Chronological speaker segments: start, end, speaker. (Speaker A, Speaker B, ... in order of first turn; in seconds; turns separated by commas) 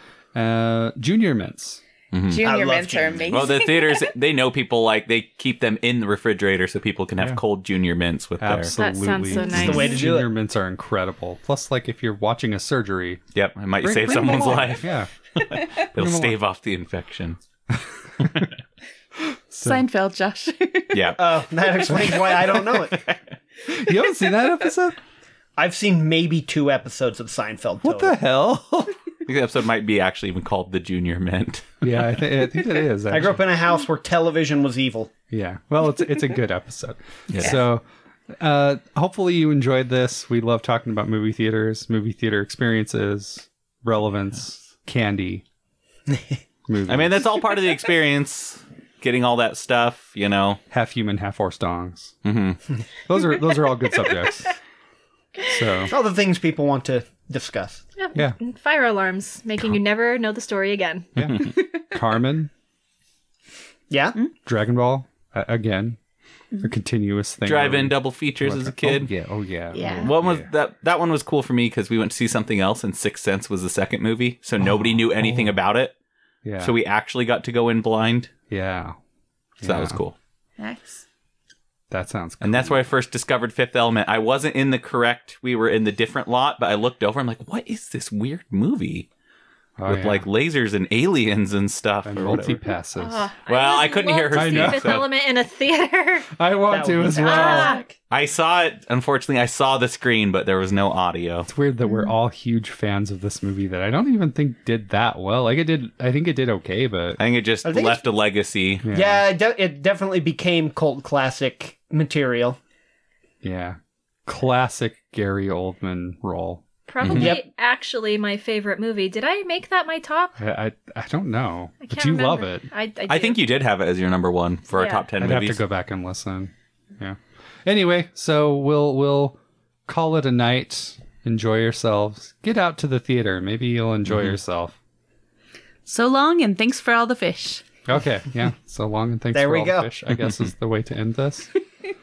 Speaker A: 0.3-1.8, Speaker B: 2.1-2.4, Speaker C: 2.3-4.1, Speaker D: 2.4-3.5, Speaker B: 3.3-8.7, Speaker A: 8.4-13.2, Speaker E: 8.7-10.0, Speaker D: 9.5-10.3, Speaker B: 13.3-17.4, Speaker A: 13.8-15.1, Speaker C: 14.1-14.7, Speaker A: 15.9-16.4, Speaker A: 17.7-18.5, Speaker A: 19.5-19.9, Speaker C: 19.6-21.2, Speaker B: 20.9-21.2, Speaker D: 21.2-23.0, Speaker B: 22.9-23.2, Speaker A: 23.7-25.0, Speaker D: 25.6-28.1, Speaker A: 27.8-28.9, Speaker B: 29.2-31.9, Speaker A: 31.8-33.4, Speaker D: 33.1-35.1, Speaker A: 35.3-37.8, Speaker B: 37.3-37.6, Speaker A: 38.4-45.4, Speaker A: 46.7-47.2, Speaker B: 46.9-50.6, Speaker A: 50.7-52.1, Speaker B: 52.2-52.6, Speaker A: 53.1-54.5, Speaker A: 55.4-55.9, Speaker D: 55.9-57.8, Speaker E: 58.0-61.1, Speaker A: 61.1-62.5, Speaker B: 61.2-61.5, Speaker C: 61.4-61.8, Speaker D: 63.9-64.2, Speaker A: 64.5-66.0, Speaker A: 66.6-70.5, Speaker B: 67.4-69.1, Speaker C: 69.7-70.1, Speaker B: 70.0-75.9, Speaker A: 74.6-75.6, Speaker A: 76.4-76.7, Speaker B: 76.6-78.3, Speaker A: 78.5-79.0, Speaker A: 79.6-80.0, Speaker B: 79.6-80.1, Speaker C: 80.6-81.0, Speaker A: 81.9-82.8, Speaker B: 82.4-89.1, Speaker A: 89.8-90.3, Speaker B: 89.8-92.6, Speaker A: 92.0-93.2, Speaker E: 93.0-96.3, Speaker B: 93.5-95.1, Speaker A: 94.3-95.0, Speaker A: 96.3-97.8, Speaker D: 96.7-97.7, Speaker C: 97.2-97.8, Speaker E: 97.2-97.9, Speaker B: 98.1-101.5, Speaker A: 101.5-107.2, Speaker B: 107.2-108.8, Speaker D: 107.6-108.0, Speaker A: 108.8-109.2, Speaker D: 108.9-112.6, Speaker A: 113.4-117.3, Speaker E: 116.9-120.3, Speaker B: 117.0-117.4, Speaker D: 117.1-117.4, Speaker A: 120.4-122.7, Speaker E: 121.8-123.4, Speaker B: 123.1-125.6, Speaker E: 124.7-125.0, Speaker A: 125.2-134.8, Speaker B: 134.1-134.3, Speaker C: 135.8-137.7, Speaker A: 137.9-141.5, Speaker D: 139.3-139.9